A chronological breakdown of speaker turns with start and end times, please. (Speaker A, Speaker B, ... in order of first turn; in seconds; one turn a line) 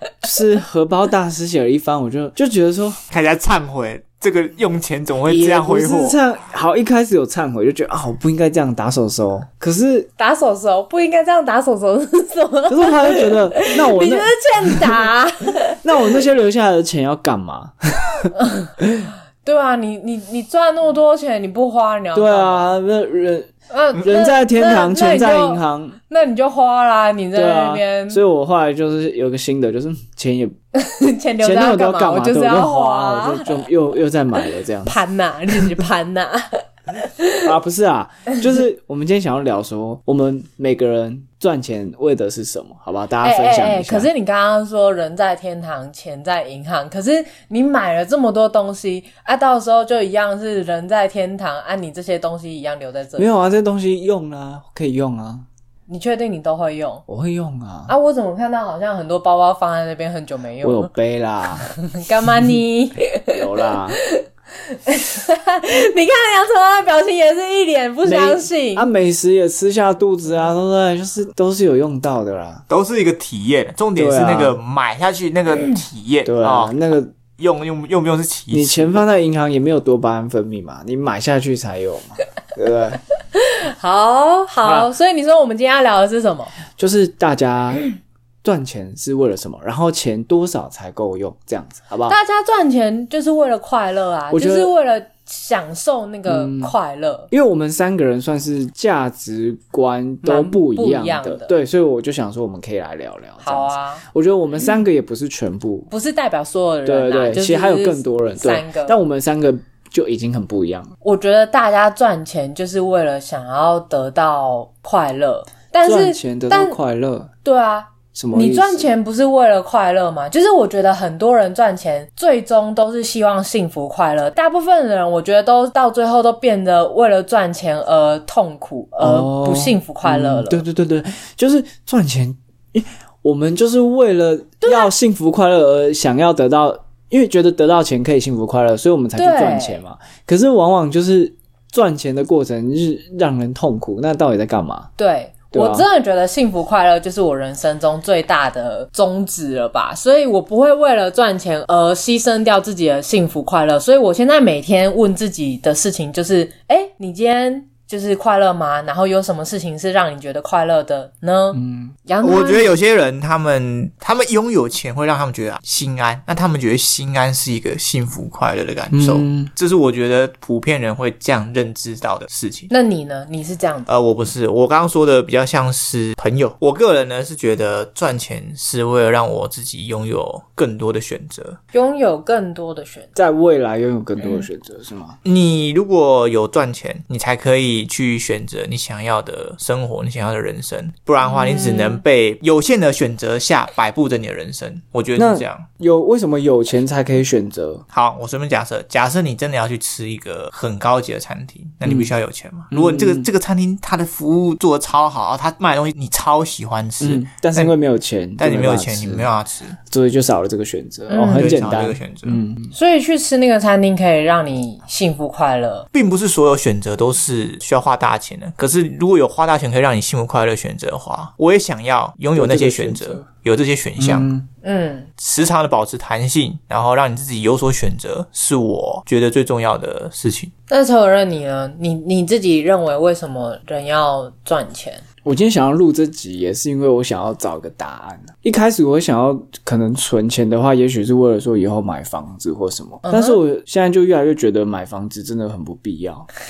Speaker A: 0.2-3.0
Speaker B: 3.1-6.2
Speaker A: 5.2-10.1
Speaker C: 10.2-15.8
Speaker A: 12.7-15.0
Speaker A: 15.8-19.1
Speaker C: 18.4-18.7
Speaker C: 19.4-22.7
Speaker A: 22.1-26.0
Speaker C: 23.7-28.2
Speaker A: 27.3-30.6
Speaker C: 30.7-33.6
Speaker A: 31.4-35.0
Speaker C: 34.9-37.5
Speaker A: 37.4-44.1
Speaker C: 43.2-53.3
Speaker A: 53.2-55.5
Speaker C: 55.9-57.0
Speaker A: 57.1-57.9
Speaker C: 57.9-60.9
Speaker A: 60.6-61.7
Speaker C: 61.6-68.9
Speaker A: 63.3-64.0
Speaker A: 68.0-72.6
Speaker B: 72.7-76.8
Speaker A: 74.0-74.6
Speaker A: 76.2-77.1
Speaker B: 77.3-79.0
Speaker A: 78.5-83.0
Speaker C: 83.3-86.5
Speaker A: 84.6-84.9
Speaker A: 86.7-87.9
Speaker A: 88.4-92.2
Speaker C: 92.1-97.3
Speaker A: 94.3-94.7
Speaker A: 96.3-96.7
Speaker A: 97.3-105.9
Speaker C: 100.2-101.5
Speaker C: 103.4-104.0
Speaker C: 105.9-109.0
Speaker A: 106.8-110.9
Speaker C: 111.0-116.8
Speaker A: 115.8-117.3
Speaker C: 117.4-130.6
Speaker A: 118.1-118.9
Speaker A: 129.0-144.9
Speaker C: 134.6-134.9
Speaker C: 139.2-139.8
Speaker C: 145.0-162.7
Speaker A: 145.5-145.9
Speaker A: 161.5-161.9
Speaker B: 162.2-172.7
Speaker A: 168.9-169.5
Speaker C: 172.7-173.9
Speaker B: 173.9-181.6
Speaker C: 181.7-183.1
Speaker A: 183.1-185.2
Speaker B: 185.2-195.7
Speaker C: 191.2-192.0
Speaker A: 195.2-197.8
Speaker B: 197.9-207.7
Speaker A: 201.8-202.1
Speaker A: 202.7-203.3
Speaker A: 207.0-209.3
Speaker B: 208.4-209.8
Speaker A: 209.9-212.7
Speaker C: 211.1-211.5
Speaker B: 211.3-212.4
Speaker C: 212.7-215.8
Speaker B: 215.9-224.3
Speaker A: 222.3-223.2
Speaker A: 224.0-224.4
Speaker C: 224.6-225.1
Speaker B: 225.2-230.5
Speaker C: 230.7-235.0
Speaker A: 235.2-246.3
Speaker C: 243.1-243.4